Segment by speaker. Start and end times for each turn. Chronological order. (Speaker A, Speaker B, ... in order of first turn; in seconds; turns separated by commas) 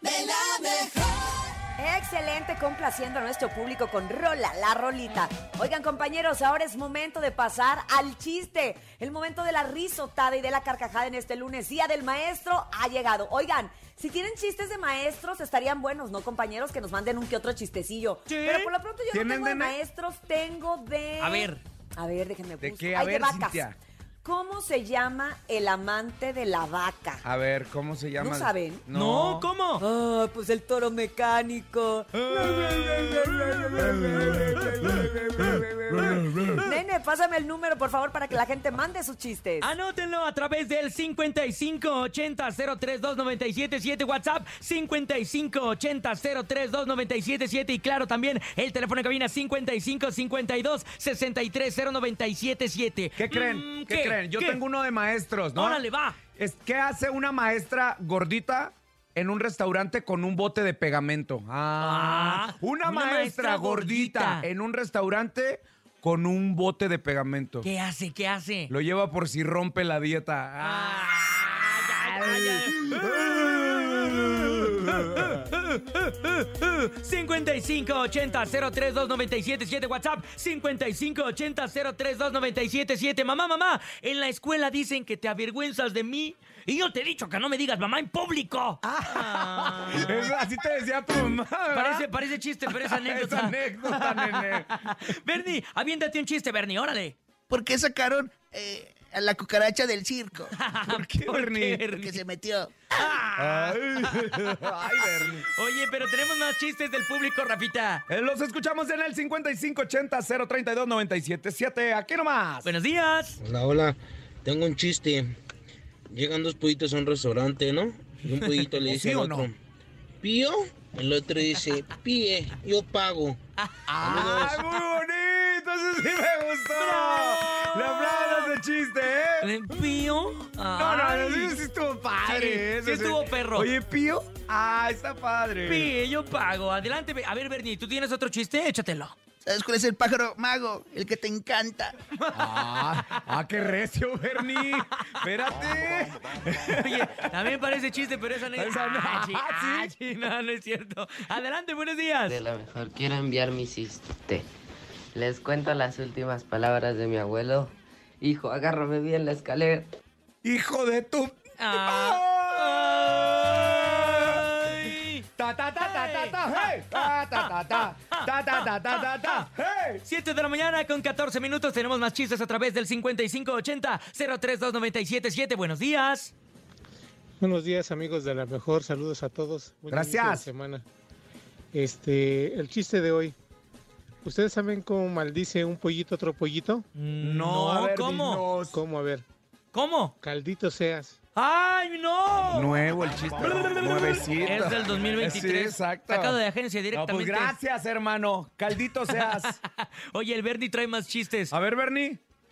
Speaker A: 1.8-23.7, Speaker B: 18.3-18.7, Speaker C: 19.1-19.8, Speaker B: 21.2-21.6, Speaker C: 22.6-23.8, Speaker A: 24.2-27.2, Speaker C: 27.2-29.5, Speaker A: 28.2-28.8, Speaker B: 28.9-29.8, Speaker A: 29.8-39.7, Speaker B: 32.1-34.6, Speaker C: 32.5-36.5, Speaker B: 36.0-36.7, Speaker B: 39.6-54.6, Speaker C: 53.2-55.8, Speaker B: 55.5-56.2, Speaker C: 56.4-67.7, Speaker B: 61.8-64.5, Speaker B: 67.6-68.7, Speaker C: 68.7-75.4, Speaker B: 70.6-90.4, Speaker C: 88.8-92.1, Speaker B: 91.7-97.2, Speaker C: 92.7-94.7, Speaker D: 97.5-100.5, Speaker B: 100.5-102.2, Speaker C: 100.9-101.8, Speaker D: 102.0-102.7, Speaker B: 102.9-108.0, Speaker C: 103.4-105.5, Speaker C: 108.1-112.7, Speaker B: 112.6-113.4, Speaker E: 113.4-115.3, Speaker E: 116.1-119.5, Speaker B: 118.3-118.7, Speaker C: 118.8-119.5, Speaker E: 120.2-123.4, Speaker C: 123.9-129.5, Speaker E: 124.0-124.6, Speaker B: 126.7-128.6, Speaker B: 129.4-131.6, Speaker C: 130.7-135.9, Speaker B: 132.2-133.7, Speaker B: 135.6-139.2, Speaker D: 139.4-141.9, Speaker B: 142.1-143.2, Speaker C: 142.3-147.2, Speaker B: 144.6-145.2, Speaker B: 146.7-152.4, Speaker C: 148.5-149.9, Speaker F: 152.3-154.5, Speaker F: 155.1-159.9, Speaker C: 160.4-164.5, Speaker B: 161.6-169.5, Speaker C: 165.4-170.0, Speaker B: 170.0-176.3, Speaker G: 177.4-180.8, Speaker C: 179.9-180.4, Speaker G: 181.7-183.3, Speaker G: 184.2-186.8, Speaker B: 186.9-188.4, Speaker C: 187.2-188.8, Speaker G: 188.7-189.2, Speaker B: 189.7-190.2, Speaker G: 190.2-191.2, Speaker B: 191.4-197.6, Speaker C: 192.5-196.4, Speaker C: 196.9-199.5, Speaker B: 199.1-201.5, Speaker C: 201.5-202.2